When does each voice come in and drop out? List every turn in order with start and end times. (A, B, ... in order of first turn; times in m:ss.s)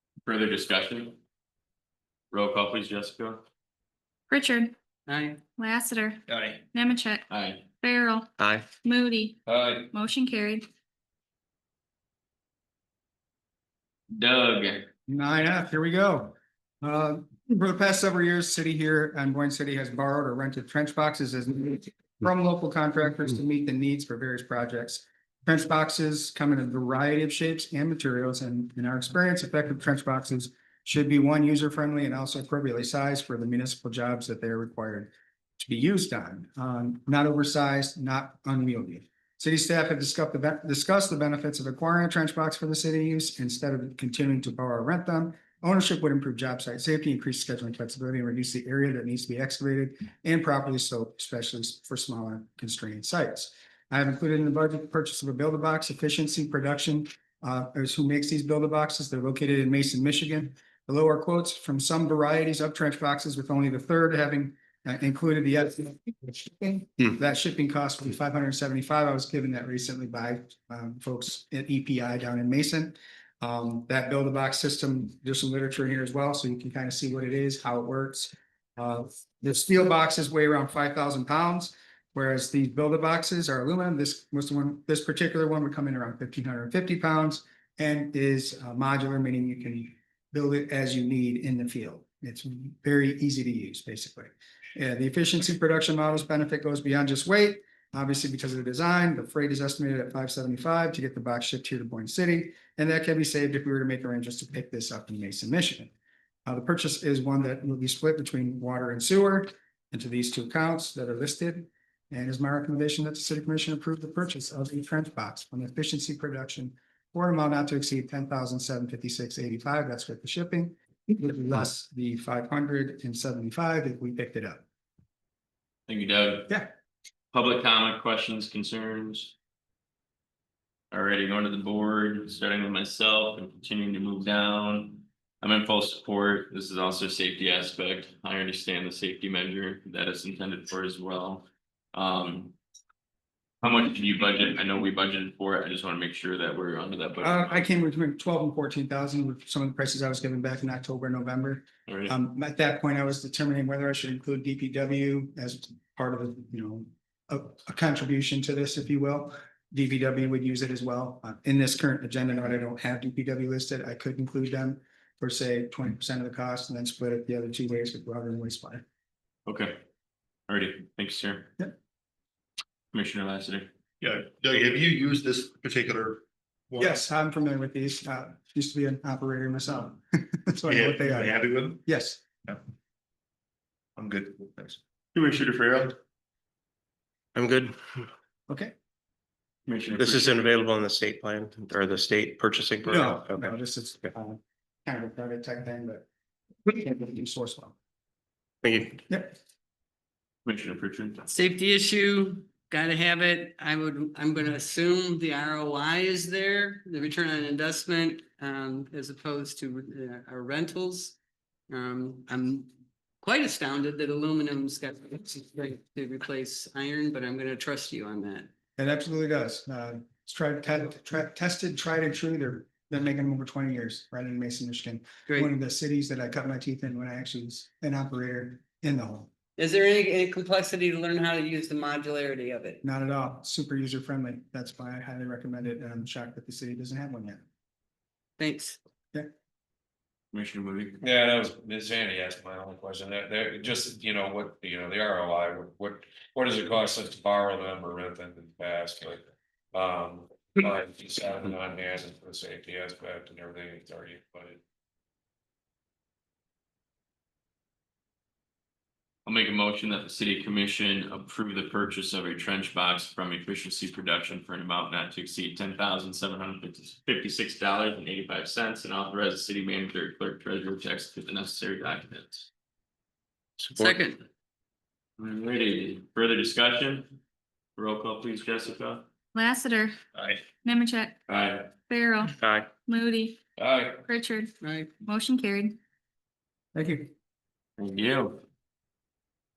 0:00.2-0:01.2 A
0:02.3-0:03.4 A
0:04.3-0:04.7 B
0:05.1-0:05.4 C
0:05.6-0:06.2 B
0:06.7-0:07.2 B
0:07.3-0:07.6 A
0:07.8-0:08.3 B
0:08.8-0:09.4 B
0:09.9-0:10.6 B
0:14.1-0:14.9 A
0:15.1-1:45.9 D
1:46.4-2:04.6 D
2:05.9-2:06.5 A
2:07.3-2:09.3 A
2:10.9-2:22.5 A
2:23.6-2:27.6 A
2:27.2-2:48.8 D
2:31.9-2:32.1 A
2:49.4-2:49.8 A
2:50.5-2:51.5 A
2:52.9-2:53.7 A
2:54.0-2:57.0 E
2:56.8-3:02.2 D
3:00.7-3:01.8 E
3:04.0-3:04.8 E
3:05.1-3:06.0 A
3:07.4-3:07.8 F
3:08.5-3:08.7 D
3:09.7-3:10.5 A
3:09.9-3:13.5 F
3:12.8-3:16.1 D
3:16.6-3:17.7 D
3:18.6-3:18.9 F
3:19.1-3:19.4 D
3:20.4-3:21.2 A
3:21.2-3:31.2 C
3:31.7-3:32.7 C
3:33.2-3:38.5 C
3:38.8-3:49.3 D
3:49.6-3:52.8 C
3:52.8-3:57.4 D
3:58.4-3:58.8 C
4:00.3-4:01.0 A
4:01.0-4:09.2 G
4:09.7-4:14.6 G
4:19.2-4:32.5 A
4:33.6-4:33.9 F
4:33.7-4:34.2 C
4:35.2-4:37.1 A
4:37.8-4:39.0 A
4:39.3-4:39.9 B
4:40.6-4:41.2 B
4:41.3-4:41.7 A
4:41.9-4:42.3 B
4:42.9-4:43.4 B
4:43.6-4:43.9 A
4:44.1-4:44.5 B
4:44.6-4:44.9 C
4:45.0-4:45.8 B
4:46.7-4:47.1 D
4:47.8-4:48.4 A